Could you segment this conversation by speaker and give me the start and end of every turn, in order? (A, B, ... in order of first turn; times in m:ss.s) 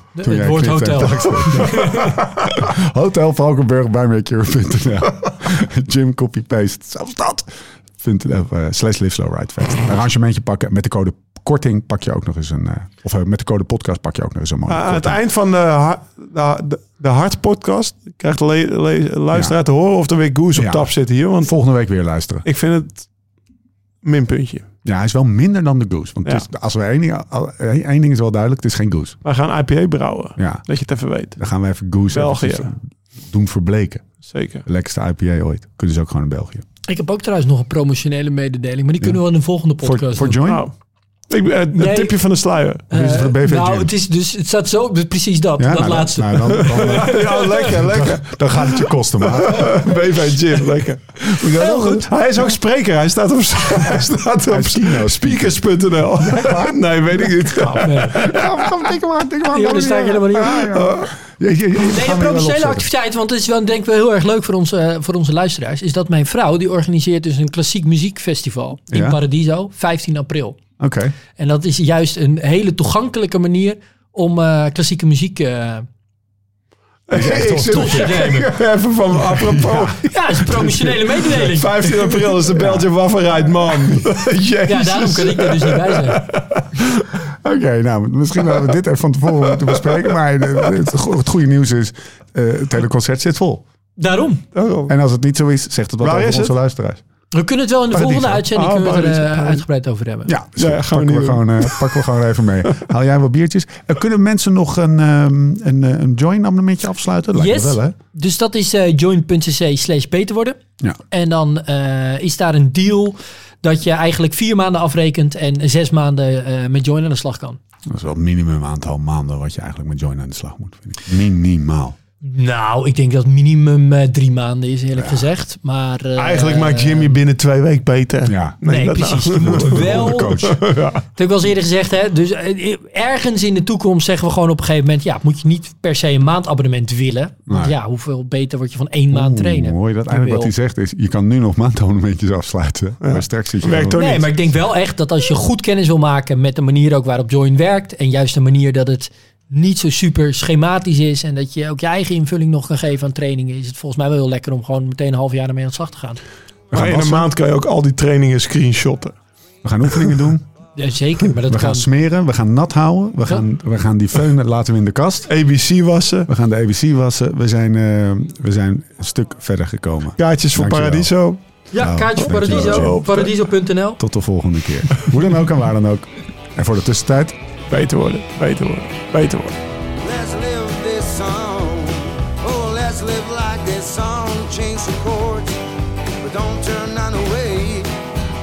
0:00.2-0:02.2 A
0:00.2-0:15.2 B
0:14.7-0:21.6 C
0:20.5-0:22.4 B
0:22.4-0:23.1 C
0:24.0-0:24.7 C
0:24.8-0:29.2 B
0:29.2-0:31.4 C
0:30.4-0:30.6 B
0:31.4-0:34.0 B
0:32.1-0:32.7 C
0:34.2-0:34.6 C
0:34.6-0:36.6 B
0:36.8-0:40.4 A
0:39.8-0:40.7 B
0:40.4-0:40.7 C
0:41.3-0:42.8 C
0:41.7-0:42.1 A
0:42.9-0:47.6 A
0:42.9-0:43.9 B
0:45.6-0:50.3 B
0:46.5-0:58.5 C
0:51.2-0:52.1 B
0:53.8-0:55.6 B
0:56.2-1:02.9 B
0:57.7-0:58.3 A
0:59.4-1:00.8 A
1:00.7-1:01.1 C
1:01.8-1:10.6 A
1:08.9-1:09.2 B
1:10.8-1:11.2 B
1:11.3-1:15.9 A
1:17.1-1:27.1 C
1:17.1-1:18.5 B
1:17.7-1:18.5 A
1:19.2-1:20.0 B
1:20.0-1:22.4 A
1:22.5-1:22.9 B
1:24.7-1:26.2 A
1:27.2-1:33.6 B
1:28.4-1:28.7 C
1:29.4-1:30.7 C
1:34.0-1:34.4 A
1:34.5-1:34.9 C
1:34.9-1:37.0 B
1:36.0-1:36.5 C
1:37.3-1:40.3 A
1:37.9-1:38.4 B
1:38.4-1:39.6 C
1:40.3-1:47.9 B
1:40.6-1:42.1 C
1:47.3-1:57.6 A
1:57.9-2:02.0 B
2:02.2-2:07.1 A
2:05.0-2:05.2 B
2:06.2-2:11.0 C
2:08.2-2:08.6 B
2:08.6-2:10.4 A
2:09.3-2:10.6 B
2:11.2-2:20.5 A
2:17.5-2:17.7 B
2:19.1-2:24.0 B
2:23.0-2:24.3 C
2:23.9-2:36.2 A
2:36.7-2:37.3 B
2:36.7-2:39.2 C
2:39.6-2:40.4 B
2:39.9-2:40.3 C
2:40.8-2:41.9 A
2:41.5-2:45.3 B
2:45.3-2:46.3 C
2:46.3-2:51.1 B
2:50.2-2:51.4 C
2:51.7-2:54.0 A
2:51.8-2:53.0 B
2:52.2-2:53.3 C
2:54.0-2:57.4 B
2:57.7-2:59.6 C
3:00.0-3:05.6 D
3:06.2-3:08.0 D